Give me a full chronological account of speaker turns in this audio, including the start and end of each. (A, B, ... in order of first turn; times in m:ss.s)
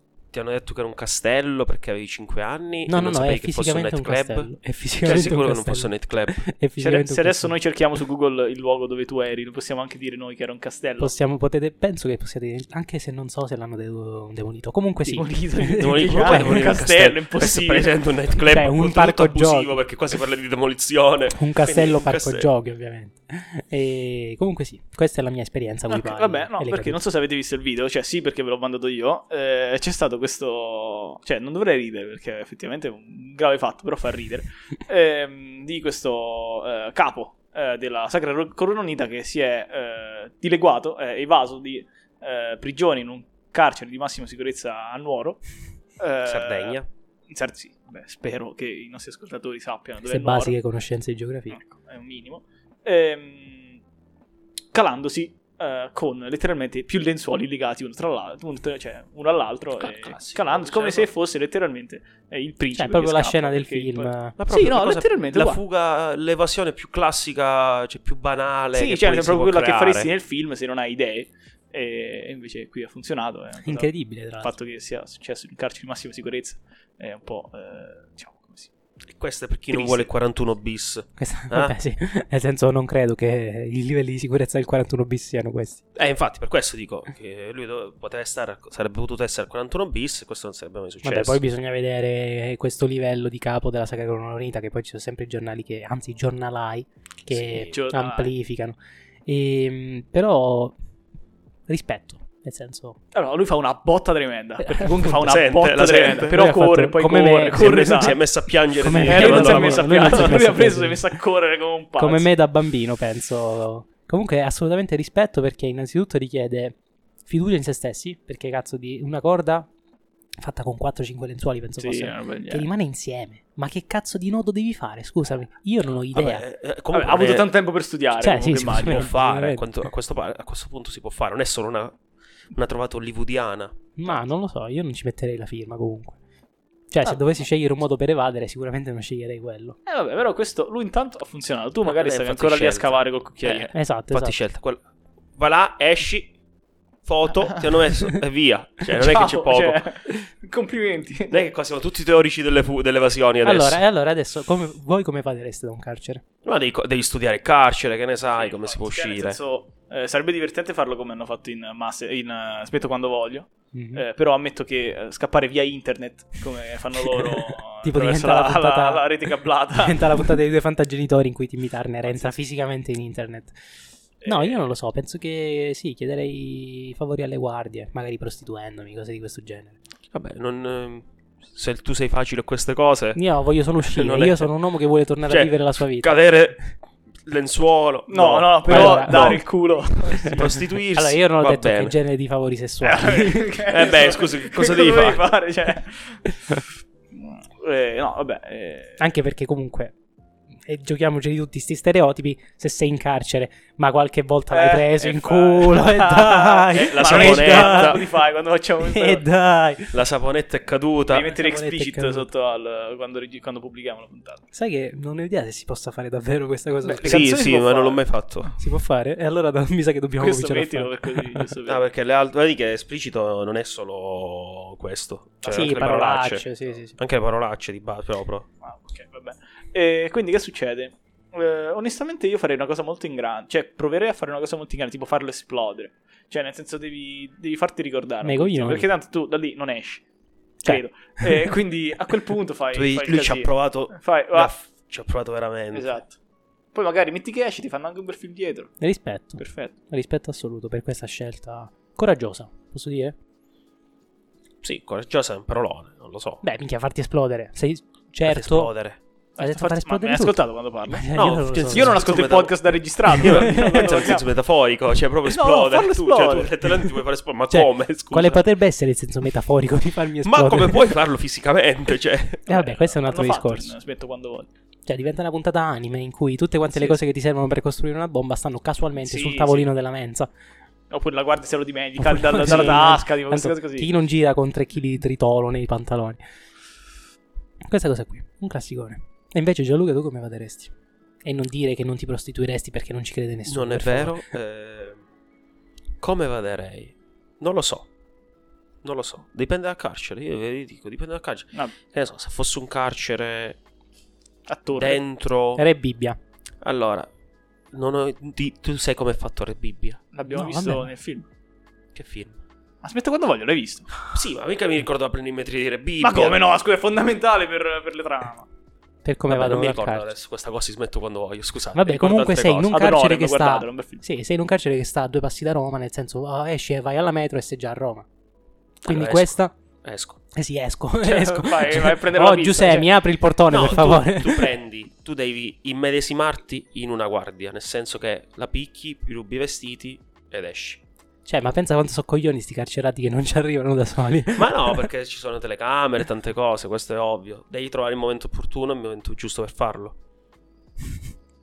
0:00.3-0:04.5 A
0:02.9-0:07.5 B
0:05.0-0:06.4 A
0:06.8-0:11.1 C
0:11.0-0:16.8 B
0:15.1-0:18.0 C
0:15.8-0:22.5 A
0:18.5-0:19.8 B
0:21.3-0:27.0 B
0:25.9-0:45.4 C
0:46.0-0:50.6 C
0:46.2-0:46.9 A
0:50.1-0:51.6 B
0:51.5-0:53.8 C
0:54.7-1:05.6 C
0:59.8-1:01.1 A
1:02.8-1:04.4 B
1:04.4-1:10.1 A
1:08.7-1:13.9 C
1:13.6-1:14.5 B
1:14.4-1:18.7 C
1:19.1-1:21.7 A
1:19.7-1:20.1 C
1:21.2-1:25.8 B
1:26.0-1:31.4 A
1:31.0-1:40.8 B
1:37.3-1:37.7 A
1:37.6-1:38.3 C
1:41.7-1:43.0 B
1:43.1-1:48.2 C
1:44.6-1:45.3 B
1:45.2-1:46.4 A
1:46.3-1:48.2 B
1:47.5-1:50.4 A
1:48.8-1:51.0 B
1:49.0-1:52.3 C
1:52.0-1:59.7 B
2:00.4-2:06.4 B
2:01.8-2:02.7 C
2:06.1-2:07.5 A
2:06.9-2:09.1 C
2:08.2-2:09.7 B
2:08.6-2:12.0 A
2:12.5-2:13.8 A
2:14.0-2:16.2 B
2:16.9-2:19.8 B
2:19.9-2:23.7 C
2:21.8-2:24.8 A
2:23.7-2:24.4 B
2:25.4-2:26.3 A
2:27.0-2:30.1 A
2:28.9-2:31.4 C
2:31.3-2:33.8 A
2:33.4-2:36.2 B
2:36.4-2:39.4 A
2:38.3-2:50.4 C
2:43.7-2:44.0 B
2:47.1-2:49.1 B
2:49.8-2:53.6 B
2:52.1-2:52.3 C
2:54.2-2:54.6 C
2:54.2-2:59.8 B
3:00.1-3:03.2 A
3:03.2-3:06.2 B
3:03.8-3:04.5 A
3:05.3-3:09.4 A
3:08.1-3:10.6 C
3:08.7-3:09.4 B
3:10.1-3:13.6 B
3:10.2-3:12.0 A
3:12.8-3:16.6 C
3:13.7-3:15.3 A
3:17.1-3:19.0 C
3:19.0-3:19.9 B
3:20.7-3:28.1 B
3:24.5-3:29.2 C
3:26.7-3:28.0 A
3:28.8-3:30.0 B
3:29.9-3:31.3 A
3:31.1-3:34.4 C
3:31.3-3:32.3 B
3:34.5-3:37.4 B
3:36.8-3:38.0 C
3:37.0-3:38.5 A
3:38.6-3:41.5 B
3:40.2-3:41.8 C
3:41.7-3:46.4 A
3:45.4-3:46.5 C
3:45.5-3:47.0 B
3:47.0-3:48.5 A
3:48.6-4:00.0 C
3:58.2-3:58.9 B
4:00.6-4:04.5 C
4:00.6-4:01.5 B
4:02.7-4:05.9 A
4:05.7-4:06.2 C
4:06.7-4:08.7 C
4:08.8-4:13.2 B
4:09.4-4:09.7 C
4:14.6-4:16.4 A
4:16.4-4:18.7 B
4:18.2-4:19.0 A
4:19.4-4:21.1 C
4:19.4-4:22.0 B
4:21.2-4:22.6 A
4:21.7-4:24.3 C
4:23.1-4:23.9 B
4:23.2-4:28.5 A
4:25.3-4:26.6 C
4:27.5-4:31.0 B
4:30.2-4:32.6 A
4:32.5-4:33.7 B
4:32.5-4:34.5 C
4:34.9-4:40.3 B
4:39.0-4:39.7 C
4:40.9-4:43.9 C
4:42.0-4:46.2 B
4:47.7-4:50.7 B
4:51.2-4:54.2 B
4:53.5-4:55.0 A
4:56.0-4:57.9 A
4:58.8-5:03.6 A
5:04.5-5:05.0 C
5:04.8-5:05.6 A
5:05.6-5:06.2 B
5:06.6-5:07.1 A
5:07.7-5:10.0 A
5:10.1-5:11.3 C
5:10.3-5:10.9 B
5:11.9-5:12.4 A
5:12.8-5:14.0 C
5:14.1-5:16.4 A
5:16.0-5:18.5 C
5:19.0-5:20.1 B
5:19.3-5:22.9 A
5:21.8-5:28.1 B
5:22.7-5:24.0 C
5:28.8-5:29.5 B
5:28.8-5:30.2 A
5:30.3-5:34.5 B
5:31.0-5:32.9 C
5:33.5-5:40.8 A
5:33.6-5:33.9 C
5:41.3-5:44.9 B
5:44.4-5:50.0 A